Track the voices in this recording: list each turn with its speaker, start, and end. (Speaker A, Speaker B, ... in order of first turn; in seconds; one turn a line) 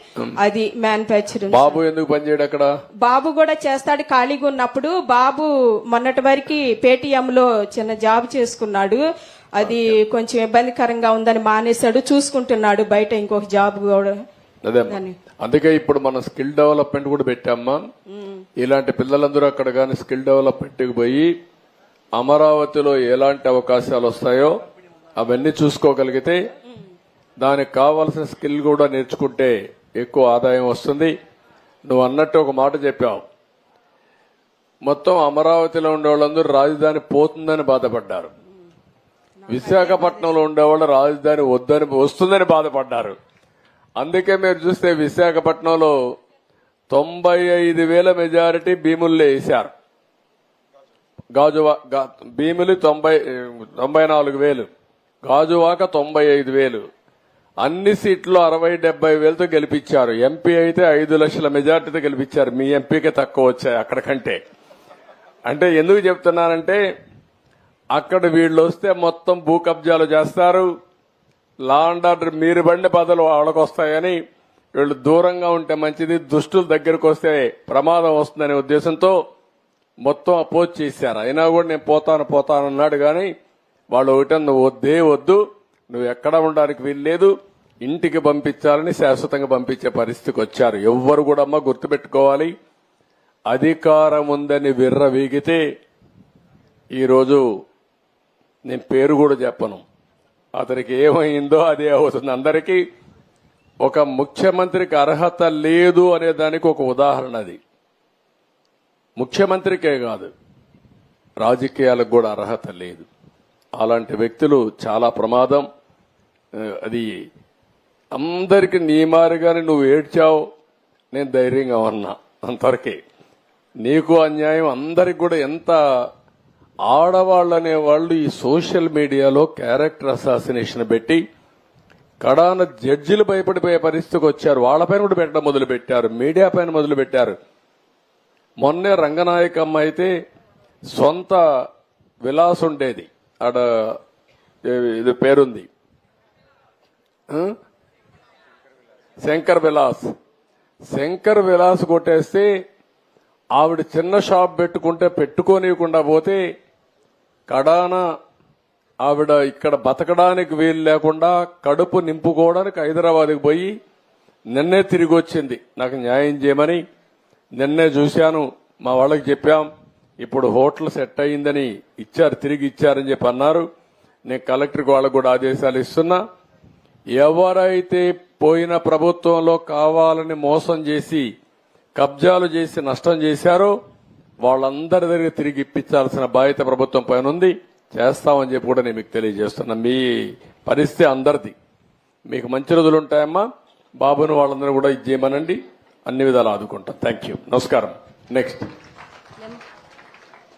Speaker A: 0.4-1.8
Speaker B: 1.5-2.7
Speaker A: 3.0-9.0
Speaker A: 9.6-14.1
Speaker B: 9.6-10.0
Speaker B: 14.6-17.9
Speaker A: 14.9-15.2
Speaker B: 18.6-21.3
Speaker B: 22.1-24.6
Speaker B: 25.2-26.4
Speaker B: 27.4-31.1
Speaker B: 31.9-33.2
Speaker B: 34.8-38.3
Speaker A: 39.4-40.4
Speaker B: 39.5-43.2
Speaker B: 44.0-46.0
Speaker B: 46.9-49.7
Speaker B: 51.3-54.7
Speaker B: 55.2-56.9
Speaker B: 57.6-64.4
Speaker B: 65.5-66.8
Speaker B: 67.9-70.7
Speaker B: 71.6-74.2
Speaker B: 74.8-79.2
Speaker B: 80.0-83.3
Speaker B: 83.9-92.5
Speaker B: 93.5-95.7
Speaker B: 96.9-97.5
Speaker B: 98.7-99.8
Speaker B: 100.5-102.8
Speaker B: 103.8-107.6
Speaker B: 109.2-110.3
Speaker B: 111.4-113.1
Speaker B: 113.8-115.7
Speaker B: 116.5-117.3
Speaker B: 118.1-120.5
Speaker B: 121.1-123.0
Speaker B: 123.8-125.8
Speaker B: 126.9-131.2
Speaker B: 132.2-137.4
Speaker B: 138.6-140.1
Speaker B: 140.9-141.6
Speaker B: 142.2-144.0
Speaker B: 144.7-145.7
Speaker B: 147.3-147.6
Speaker B: 149.2-150.1
Speaker B: 150.9-152.5
Speaker B: 153.5-156.4
Speaker B: 157.5-158.0
Speaker B: 159.0-163.7
Speaker B: 164.5-166.8
Speaker B: 167.6-169.7
Speaker B: 170.2-173.7
Speaker B: 174.3-176.2
Speaker B: 177.1-181.3
Speaker B: 181.9-183.8
Speaker B: 184.4-191.6
Speaker B: 192.3-193.5
Speaker B: 194.0-198.7